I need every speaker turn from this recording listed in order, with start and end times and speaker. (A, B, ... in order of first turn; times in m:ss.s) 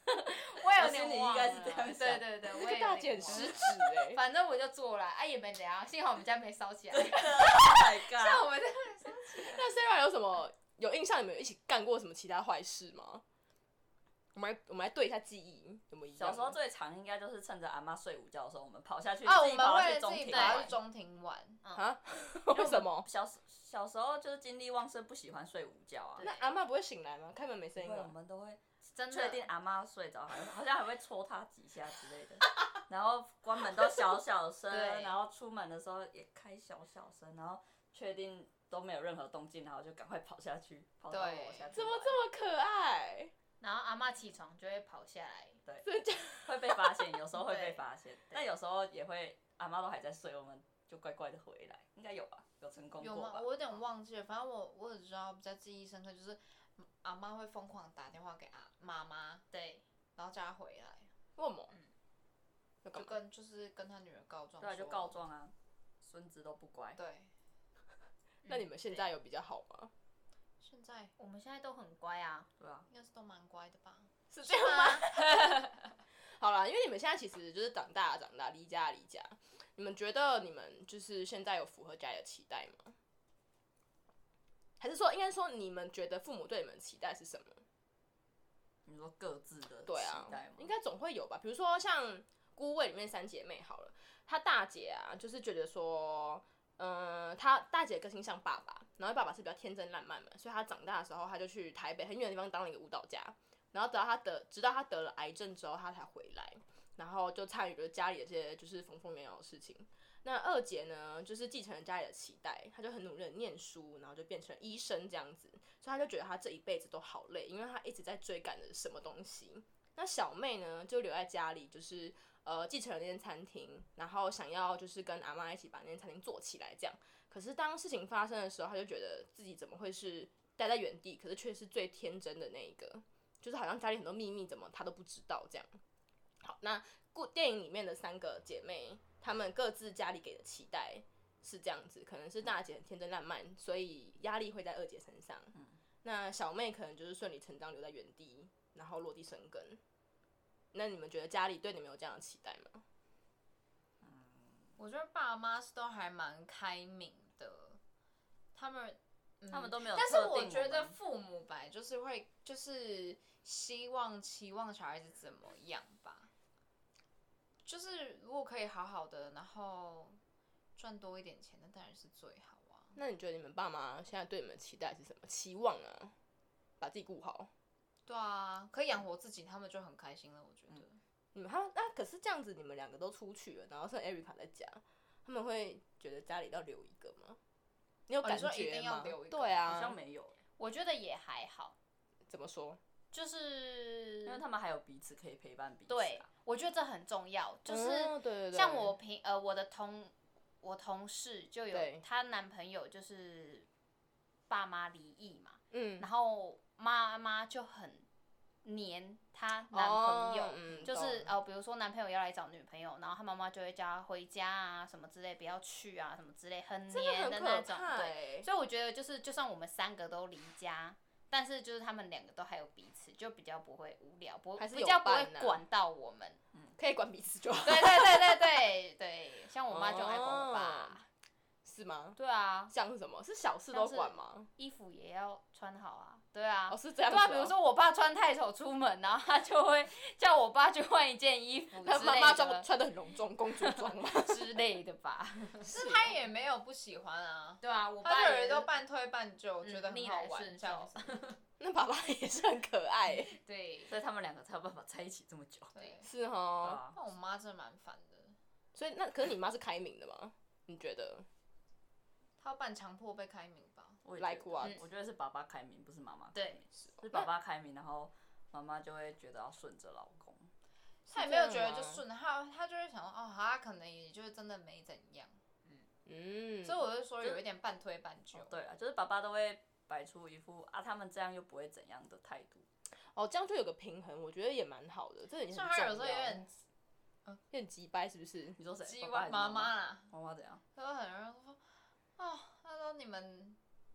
0:00.5-0:07.5 A
0:00.6-0:02.4 B
0:02.5-0:04.2 C
0:06.9-0:08.5 B
0:07.5-0:09.6 D
0:09.4-0:13.2 C
0:14.4-0:16.6 C
0:16.2-0:20.8 B
0:19.2-0:21.6 D
0:20.3-0:20.7 A
0:21.8-0:23.1 C
0:22.5-0:26.3 B
0:26.2-0:26.5 A
0:26.2-0:28.1 C
0:27.8-0:42.2 B
0:28.9-0:29.4 A
0:34.7-0:35.1 A
0:41.1-0:41.7 D
0:41.7-0:43.3 C
0:43.6-0:45.6 A
0:45.8-0:47.1 C
0:46.4-0:53.5 B
0:47.4-0:48.4 A
0:53.0-0:59.5 D
0:59.5-0:59.8 A
1:00.2-1:01.1 D
1:01.4-1:01.7 C
1:02.8-1:03.2 C
1:02.9-1:05.2 D
1:04.6-1:07.0 B
1:07.0-1:07.3 D
1:08.4-1:09.9 C
1:10.6-1:11.1 D
1:11.2-1:12.5 A
1:12.6-1:12.9 B
1:12.9-1:15.7 D
1:14.3-1:15.3 C
1:16.4-1:22.9 C
1:24.8-1:27.6 C
1:28.9-1:30.7 B
1:29.9-2:15.8 C
2:16.4-2:29.8 C
2:30.7-2:32.8 C
2:34.0-2:34.7 B
2:34.8-2:37.8 D
2:38.6-2:46.3 D
2:39.5-2:41.0 B
2:47.6-2:50.2 D
2:50.8-2:53.0 D
2:53.0-2:56.1 C
2:56.8-2:57.5 C
2:58.1-3:01.0 D
3:01.3-3:07.4 C
3:08.1-3:10.0 C
3:08.2-3:09.8 D
3:09.7-3:10.4 B
3:10.6-3:11.8 A
3:12.3-3:12.8 C
3:13.1-3:14.4 A
3:14.3-3:16.3 B
3:15.9-3:23.7 A
3:17.7-3:19.0 C
3:21.7-3:22.0 C
3:24.5-3:28.1 A
3:25.7-3:26.1 C
3:28.6-3:46.4 A
3:29.7-3:31.3 C
3:36.9-3:38.5 C
3:44.6-3:45.6 C
3:46.8-3:48.5 C
3:47.6-3:51.0 A
3:49.7-3:51.0 C
3:51.6-3:52.2 C
3:52.2-3:52.7 A
3:52.7-3:54.5 C
3:53.7-4:02.7 A
3:56.7-3:57.5 C
4:01.8-4:04.5 C
4:03.6-4:05.7 A
4:05.6-4:11.3 D
4:05.7-4:06.2 C
4:07.6-4:08.7 A
4:09.6-4:11.4 A
4:11.6-4:13.4 C
4:13.4-4:13.9 D
4:13.9-4:15.9 B
4:15.7-4:16.1 D
4:16.0-4:16.8 C
4:16.6-4:17.0 B
4:16.9-4:18.4 D
4:18.8-4:21.3 C
4:22.4-4:24.0 D
4:24.0-4:30.5 B
4:24.2-4:24.8 C
4:26.3-4:26.6 A
4:31.1-4:32.0 C
4:31.1-4:35.4 D
4:36.1-4:36.8 C
4:36.6-4:38.6 D
4:38.3-4:42.7 B
4:43.2-4:46.5 C
4:45.5-4:46.5 D
4:47.5-4:48.6 C
4:48.6-4:50.6 B
4:48.8-4:50.1 D
4:50.8-4:51.6 D
4:52.2-4:53.6 D